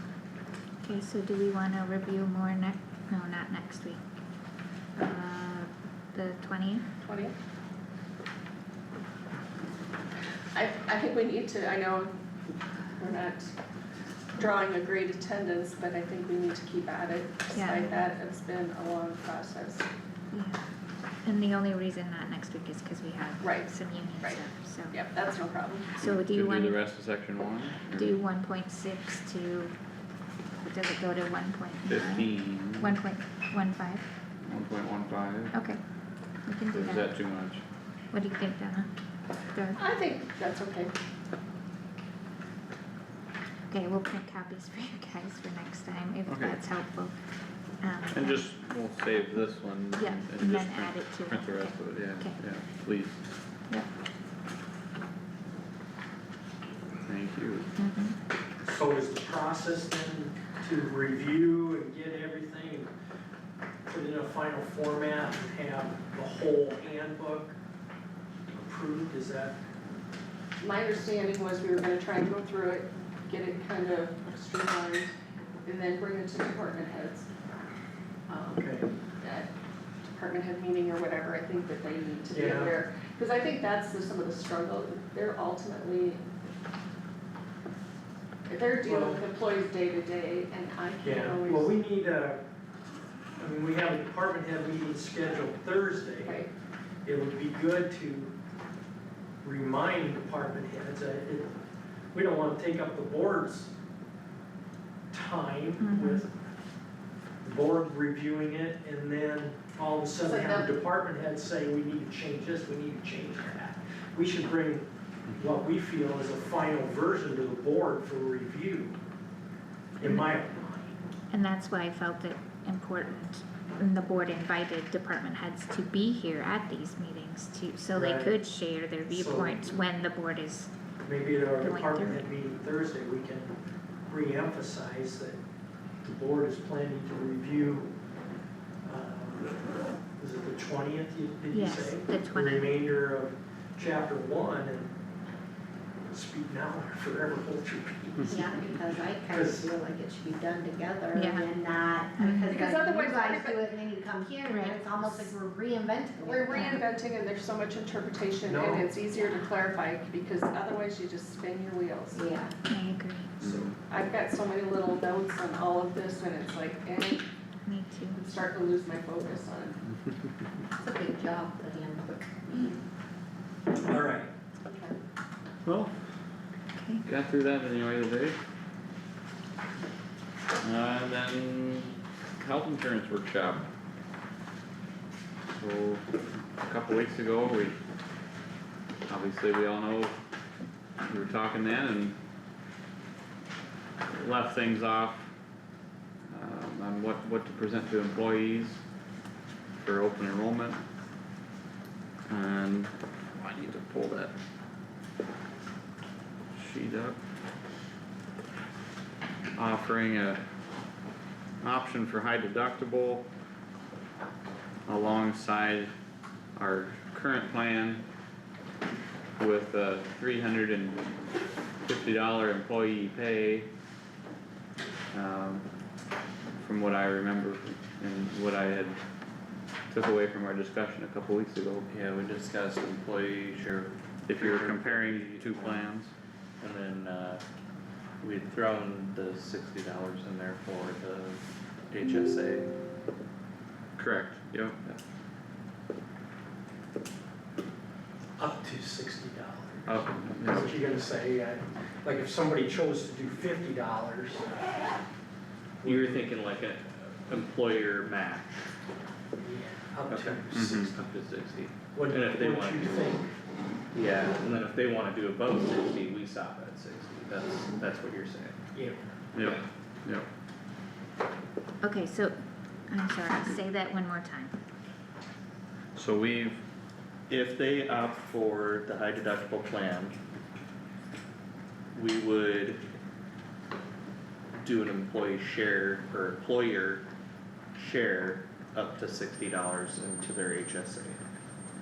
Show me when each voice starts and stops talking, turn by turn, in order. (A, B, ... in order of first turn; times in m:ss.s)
0:00.8-0:04.0 A
0:05.0-0:06.9 A
0:07.0-0:07.3 B
0:10.5-0:12.2 B
0:13.0-0:13.5 B
0:14.4-0:19.9 B
0:17.5-0:18.0 A
0:20.3-0:20.6 A
0:21.2-0:25.0 A
0:23.4-0:24.4 B
0:24.9-0:25.9 B
0:26.0-0:26.8 A
0:26.0-0:28.2 C
0:28.0-0:29.7 A
0:30.6-0:34.0 A
0:31.9-0:33.0 C
0:34.4-0:35.5 C
0:35.5-0:35.8 A
0:36.4-0:37.1 A
0:36.7-0:37.6 C
0:38.1-0:38.9 A
0:39.5-0:39.8 A
0:39.8-0:40.9 B
0:43.7-0:47.1 A
0:46.3-0:46.6 C
0:47.8-0:48.4 A
0:48.1-0:53.2 C
0:49.9-0:52.4 A
0:57.0-0:57.7 C
0:57.8-0:58.2 A
0:58.6-1:02.9 D
1:03.8-1:07.6 D
1:08.5-1:09.6 D
1:10.6-1:15.1 B
1:15.6-1:17.3 B
1:18.3-1:19.5 B
1:18.6-1:18.9 D
1:20.1-1:26.2 B
1:22.3-1:22.8 D
1:28.5-1:31.7 B
1:28.8-1:29.2 D
1:31.0-1:32.4 D
1:33.4-1:36.4 D
1:36.2-1:36.5 B
1:37.0-1:38.3 D
1:39.4-1:41.5 D
1:42.1-1:43.7 D
1:45.1-1:46.3 D
1:45.8-1:46.2 A
1:47.4-1:59.0 D
1:50.2-1:50.7 B
2:00.0-2:01.0 D
2:00.0-2:00.3 A
2:01.3-2:10.7 A
2:07.9-2:08.4 D
2:09.1-2:09.7 D
2:11.0-2:13.6 D
2:11.6-2:12.3 A
2:14.1-2:15.4 D
2:16.0-2:17.9 D
2:18.8-2:19.5 D
2:20.2-2:24.9 D
2:21.5-2:22.8 A
2:26.1-2:29.7 D
2:28.3-2:36.7 E
2:31.1-2:31.5 A
2:32.2-2:32.6 A
2:32.5-2:33.6 B
2:34.5-2:35.3 A
2:36.2-2:42.2 B
2:36.5-2:36.8 A
2:38.4-2:38.9 D
2:42.1-2:42.5 E
2:42.7-2:43.3 A
2:43.4-2:43.7 D
2:43.4-2:43.7 C
2:43.9-2:47.2 B
2:47.6-2:48.2 A
2:48.2-2:49.8 B
2:50.8-2:52.3 E
2:53.8-2:54.3 D
2:54.6-2:54.9 B
2:56.7-2:57.0 A
2:57.0-2:58.4 C
3:00.6-3:03.6 C
3:05.6-3:07.8 C
3:09.1-3:10.2 C
3:11.0-3:12.2 C
3:14.0-3:15.3 C
3:16.3-3:18.8 C
3:19.8-3:20.8 C
3:22.3-3:24.3 C
3:26.5-3:27.2 C
3:29.6-3:30.4 C
3:31.6-3:33.3 C
3:34.9-3:35.9 C
3:36.6-3:38.0 C
3:39.4-3:41.1 C
3:41.8-3:43.7 C
3:45.1-3:45.6 C
3:46.6-3:49.0 C
3:49.9-3:51.9 C
3:51.9-3:55.9 F
3:54.3-3:56.1 C
3:56.6-3:57.4 F
3:58.2-4:02.7 F
4:04.0-4:04.8 C
4:08.4-4:14.5 D
4:09.8-4:10.8 C
4:15.8-4:16.2 D
4:15.8-4:18.7 F
4:19.4-4:20.9 D
4:20.1-4:23.0 F
4:20.5-4:20.9 C
4:21.9-4:23.3 D
4:23.9-4:28.6 F
4:28.7-4:29.1 D
4:29.3-4:30.3 C
4:31.8-4:32.4 A
4:32.9-4:34.5 A
4:35.9-4:36.6 C
4:37.3-4:40.2 F
4:41.9-4:42.8 F
4:44.6-4:47.0 F
4:47.7-4:51.2 F